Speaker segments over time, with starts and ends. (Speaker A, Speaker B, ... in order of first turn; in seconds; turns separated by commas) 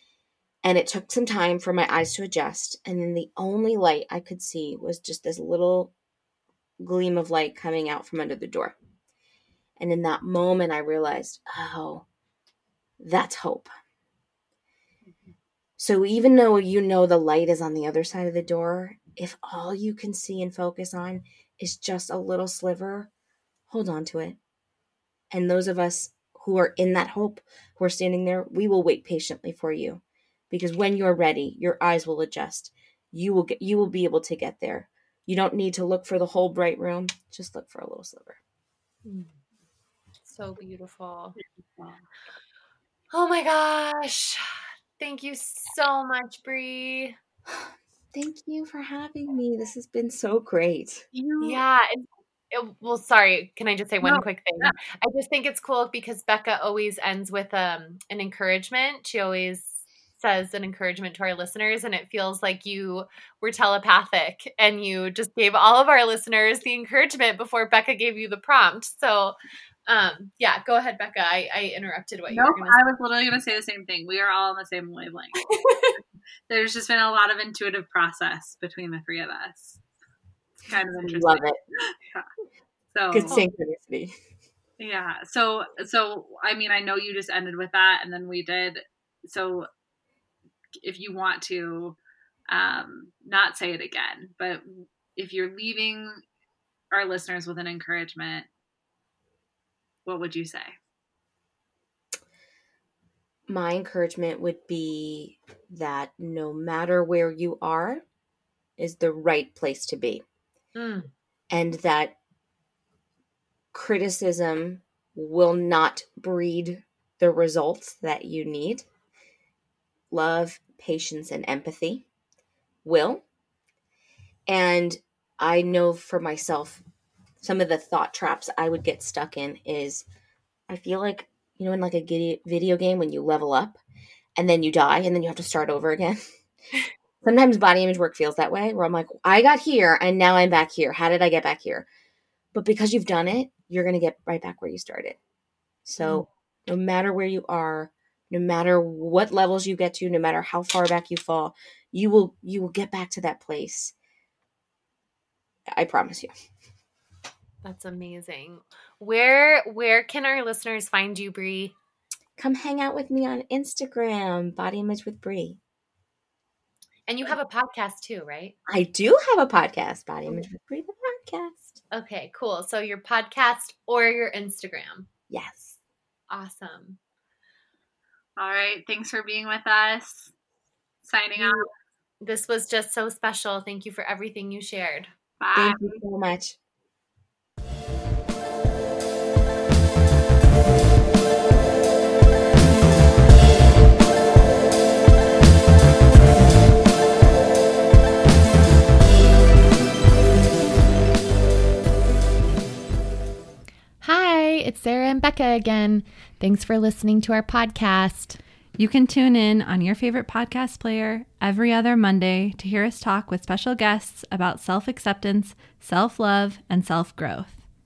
Speaker A: 0.6-5.9, Speaker A: 6.8-8.8, Speaker A: 9.8-12.1, Speaker A: 13.0-13.7, Speaker A: 15.8-23.1, Speaker A: 23.7-24.4, Speaker A: 25.3-38.4, Speaker B: 39.0-39.3, Speaker B: 40.2-41.4, Speaker B: 43.1-44.5, Speaker B: 45.0-47.1, Speaker A: 47.5-51.1, Speaker C: 51.1-51.6, Speaker B: 51.4-69.3, Speaker C: 54.0-54.8, Speaker B: 69.9-72.8, Speaker C: 72.3-75.5, Speaker B: 75.5-75.9, Speaker C: 76.5-79.8, Speaker C: 80.6-82.2, Speaker A: 81.0-81.6, Speaker C: 82.9-83.4, Speaker A: 83.1-84.1, Speaker C: 84.8-89.7, Speaker C: 90.8-92.0, Speaker C: 92.5-96.2, Speaker C: 96.9-98.5, Speaker C: 100.0-100.7, Speaker A: 103.5-108.0, Speaker A: 108.8-110.2, Speaker B: 110.7-111.1, Speaker A: 111.5-112.2, Speaker A: 113.7-118.8, Speaker A: 120.1-122.0, Speaker A: 122.8-123.2, Speaker A: 124.5-126.8, Speaker A: 127.4-130.1, Speaker A: 130.7-133.8, Speaker A: 134.4-136.2, Speaker A: 137.2-141.8, Speaker A: 142.5-145.2, Speaker A: 145.8-153.9, Speaker B: 146.0-146.2, Speaker A: 155.7-156.3, Speaker B: 157.6-161.7, Speaker A: 162.4-165.6, Speaker B: 167.1-168.5, Speaker A: 168.7-171.8, Speaker B: 171.9-175.1, Speaker A: 175.3-175.8, Speaker B: 176.3-177.0, Speaker C: 178.4-180.3, Speaker C: 181.0-181.7, Speaker B: 181.4-181.7, Speaker B: 182.2-185.1, Speaker C: 185.4-185.9, Speaker A: 185.5-186.6, Speaker B: 204.0-208.4, Speaker D: 208.8-217.6